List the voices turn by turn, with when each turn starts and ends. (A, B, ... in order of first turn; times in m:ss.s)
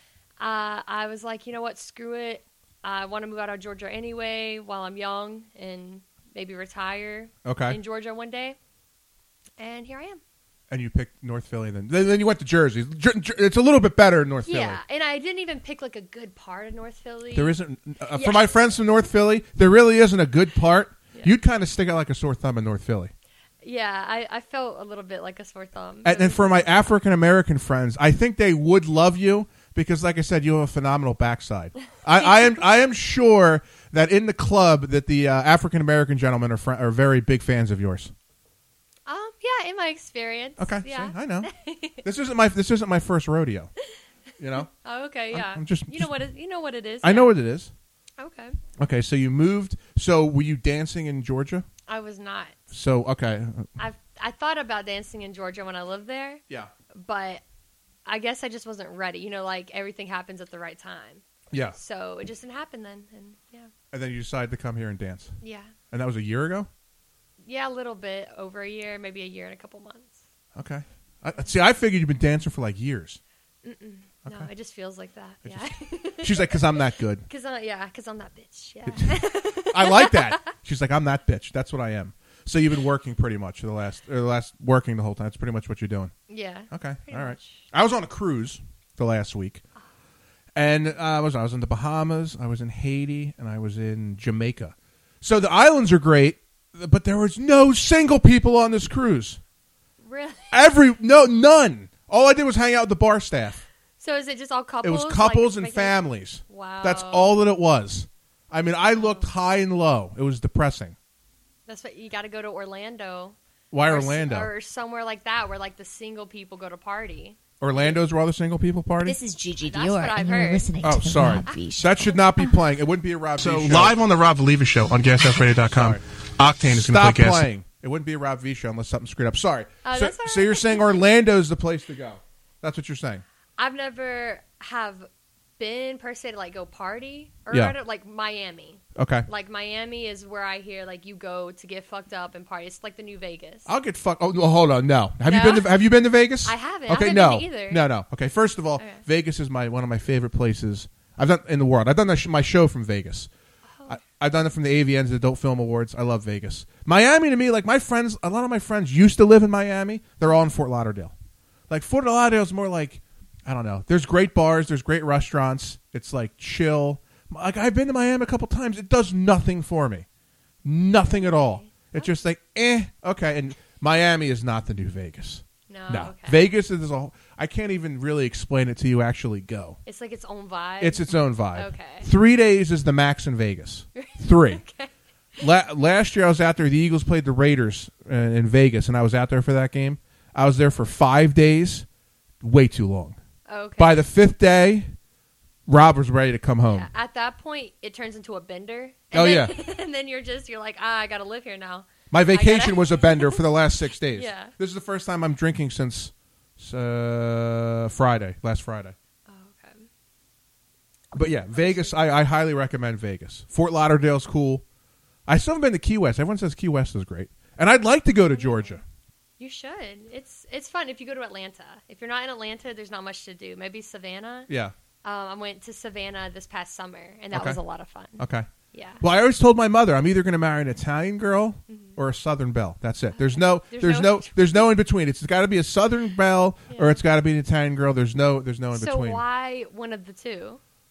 0:00.4-0:08.6 A
0:07.4-0:07.8 B
0:09.6-0:10.2 A
0:10.7-0:14.8 B
0:14.5-0:17.6 A
0:17.3-0:23.1 B
0:18.2-0:18.6 A
0:23.6-0:26.7 A
0:26.0-0:38.1 B
0:32.2-0:32.7 A
0:39.1-0:42.0 A
0:40.6-0:41.5 B
0:42.0-0:43.7 B
0:44.4-0:44.7 B
0:44.6-0:47.3 A
0:45.3-0:46.1 B
0:47.0-0:47.7 B
0:48.2-0:48.6 A
0:48.8-0:51.7 B
0:51.9-0:52.6 A
0:52.7-0:53.7 B
0:53.8-0:56.4 A
0:57.0-0:57.4 A
0:58.1-1:01.2 A
1:01.5-1:01.8 B
1:01.8-1:03.7 A
1:03.9-1:05.3 B
1:05.4-1:05.7 A
1:05.9-1:06.7 B
1:07.4-1:10.2 A
1:10.6-1:13.2 B
1:13.6-1:16.8 A
1:16.2-1:17.2 B
1:17.3-1:20.4 A
1:18.8-1:26.1 B
1:26.3-1:27.6 A
1:26.7-1:29.6 B
1:30.6-1:39.4 B
1:40.0-1:40.6 A
1:40.5-1:43.6 B
1:44.0-1:47.3 A
1:44.8-1:51.0 B
1:48.9-1:49.3 A
1:51.7-1:58.0 A
1:53.7-1:54.5 B
1:57.6-1:59.2 B
1:59.0-2:02.5 C
1:59.6-2:00.7 A
2:00.8-2:04.0 B
2:03.4-2:07.5 D
2:05.7-2:06.0 B
2:06.6-2:13.2 B
2:09.8-2:11.0 A
2:13.6-2:23.7 A
2:19.0-2:19.3 B
2:23.7-2:33.3 B
2:25.3-2:25.9 A
2:26.4-2:27.9 A
2:33.9-2:41.1 B
2:41.7-2:50.1 B
2:50.6-2:59.8 B
2:51.0-2:52.1 A
2:55.7-2:56.5 A
2:59.9-3:02.1 A
3:00.8-3:04.6 B
3:04.0-3:04.9 A
3:05.4-3:11.8 B
3:12.4-3:13.2 B
3:13.5-3:14.1 A
3:13.8-3:14.9 B
3:15.7-3:16.9 B
3:16.7-3:23.4 A
3:19.1-3:19.6 B
3:22.1-3:29.0 B
3:24.1-3:24.5 A
3:29.3-3:29.9 A
3:31.1-3:34.6 B
3:31.2-3:32.0 A
3:35.3-3:38.8 B
3:38.3-3:38.8 A
3:39.4-3:44.5 A
3:44.5-3:44.7 B
3:45.0-3:48.2 A
3:47.3-3:47.6 B
3:48.2-3:48.5 B
3:48.7-3:49.0 A
3:49.0-3:59.2 B
3:51.7-3:52.0 A
3:53.1-3:54.7 A
3:56.7-3:57.0 A
3:58.7-4:00.6 A